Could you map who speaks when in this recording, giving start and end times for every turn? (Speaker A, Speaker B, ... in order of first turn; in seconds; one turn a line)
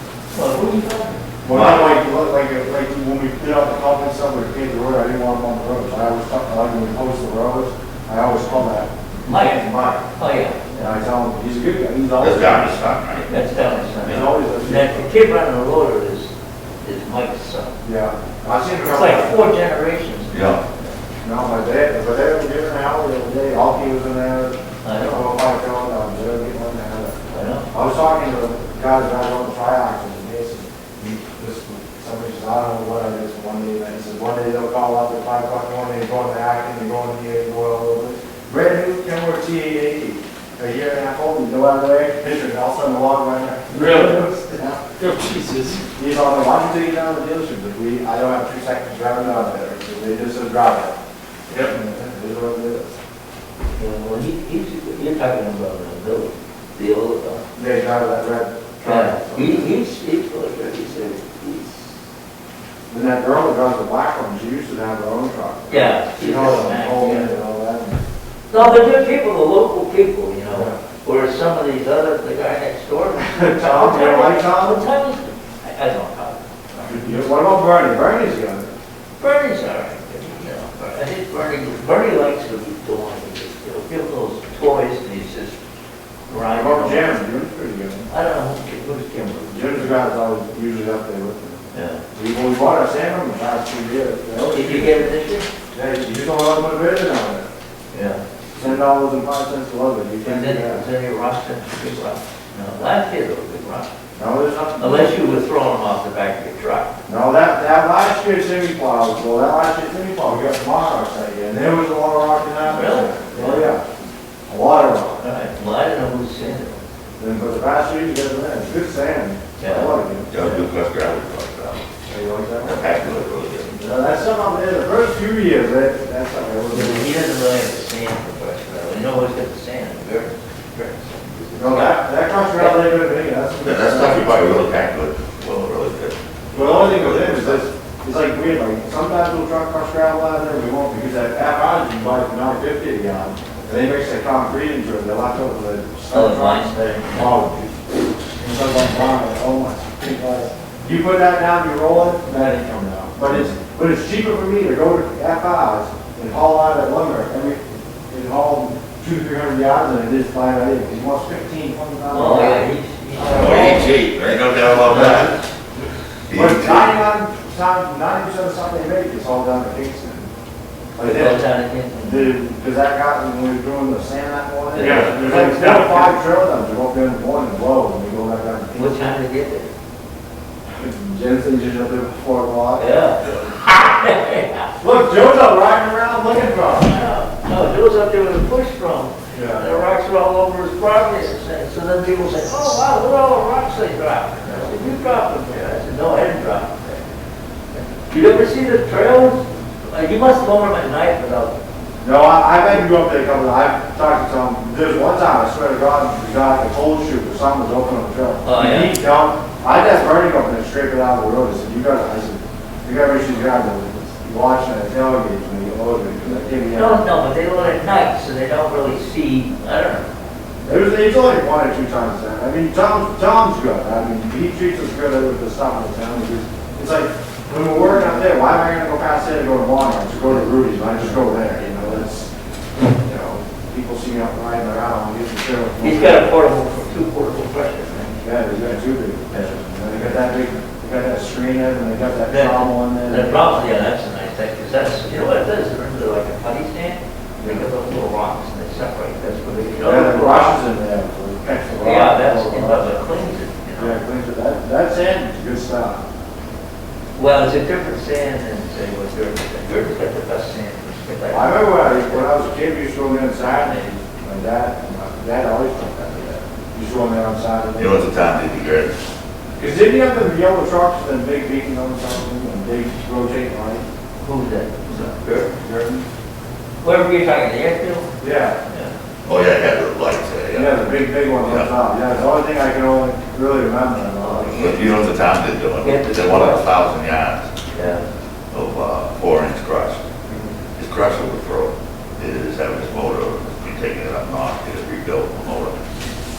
Speaker A: 0.3-1.2
Speaker B: 1.4-10.1
Speaker C: 1.5-2.0
Speaker A: 9.2-10.9
Speaker B: 10.8-12.8
Speaker C: 12.2-13.4
Speaker A: 13.3-16.3
Speaker B: 14.0-15.1
Speaker A: 16.8-17.8
Speaker B: 17.8-19.4
Speaker A: 18.7-20.9
Speaker C: 20.3-20.6
Speaker B: 21.2-27.2
Speaker A: 24.8-25.3
Speaker A: 27.3-27.7
Speaker B: 27.7-44.8
Speaker D: 43.7-44.3
Speaker D: 45.0-45.9
Speaker B: 46.0-51.0
Speaker B: 51.6-53.0
Speaker A: 53.8-57.4
Speaker B: 57.6-59.7
Speaker A: 58.8-61.9
Speaker B: 62.9-68.0
Speaker A: 65.7-67.4
Speaker A: 68.5-76.5
Speaker B: 68.6-68.8
Speaker B: 70.5-70.8
Speaker B: 73.2-74.8
Speaker B: 76.8-78.7
Speaker A: 79.2-85.6
Speaker A: 86.3-87.1
Speaker B: 86.5-88.1
Speaker A: 88.1-90.0
Speaker B: 89.5-91.6
Speaker A: 91.7-92.0
Speaker B: 92.1-95.1
Speaker A: 94.5-95.5
Speaker B: 95.7-97.5
Speaker A: 97.9-98.7
Speaker B: 98.5-100.8
Speaker A: 100.2-103.9
Speaker B: 104.2-105.3
Speaker A: 104.8-106.9
Speaker B: 107.1-113.8
Speaker A: 112.7-113.8
Speaker B: 114.5-115.2
Speaker A: 115.2-116.8
Speaker B: 117.2-120.4
Speaker A: 119.6-119.9
Speaker C: 120.3-121.9
Speaker B: 122.1-122.8
Speaker C: 122.6-123.7
Speaker B: 123.7-127.1
Speaker A: 126.7-132.0
Speaker B: 131.6-134.7
Speaker A: 132.5-132.8
Speaker C: 133.6-137.7
Speaker B: 136.5-147.8
Speaker A: 146.1-147.4
Speaker B: 148.4-163.9
Speaker A: 162.1-163.9
Speaker C: 163.3-165.3
Speaker A: 164.8-165.4
Speaker B: 164.9-165.3
Speaker C: 166.3-167.0
Speaker B: 166.3-170.3
Speaker B: 171.0-171.5
Speaker A: 171.0-172.4
Speaker B: 172.0-178.9
Speaker A: 174.7-175.4
Speaker D: 174.8-176.2
Speaker A: 178.7-179.7
Speaker B: 180.7-182.8
Speaker A: 182.8-184.7
Speaker B: 184.8-186.9
Speaker A: 186.8-197.1
Speaker B: 189.3-189.7
Speaker A: 198.1-201.6
Speaker B: 202.0-217.0
Speaker A: 208.4-209.0
Speaker A: 216.7-220.1
Speaker B: 220.6-232.3
Speaker B: 232.9-236.3
Speaker A: 235.8-238.2
Speaker B: 238.2-243.7
Speaker A: 239.3-240.1
Speaker A: 242.3-250.6
Speaker B: 247.4-247.6
Speaker B: 249.8-252.9
Speaker A: 251.8-254.0
Speaker B: 253.8-256.0
Speaker A: 257.2-262.3
Speaker B: 261.3-268.1
Speaker A: 263.6-263.9
Speaker C: 267.8-269.0
Speaker B: 269.6-273.8
Speaker A: 274.2-275.6
Speaker B: 275.6-276.0
Speaker A: 276.8-278.1
Speaker B: 278.2-278.6
Speaker A: 278.7-278.9
Speaker C: 279.2-281.7
Speaker B: 280.5-284.7
Speaker A: 284.1-284.9
Speaker C: 284.5-287.5
Speaker A: 285.8-286.7
Speaker A: 287.7-288.1
Speaker C: 288.5-290.0
Speaker C: 290.8-295.9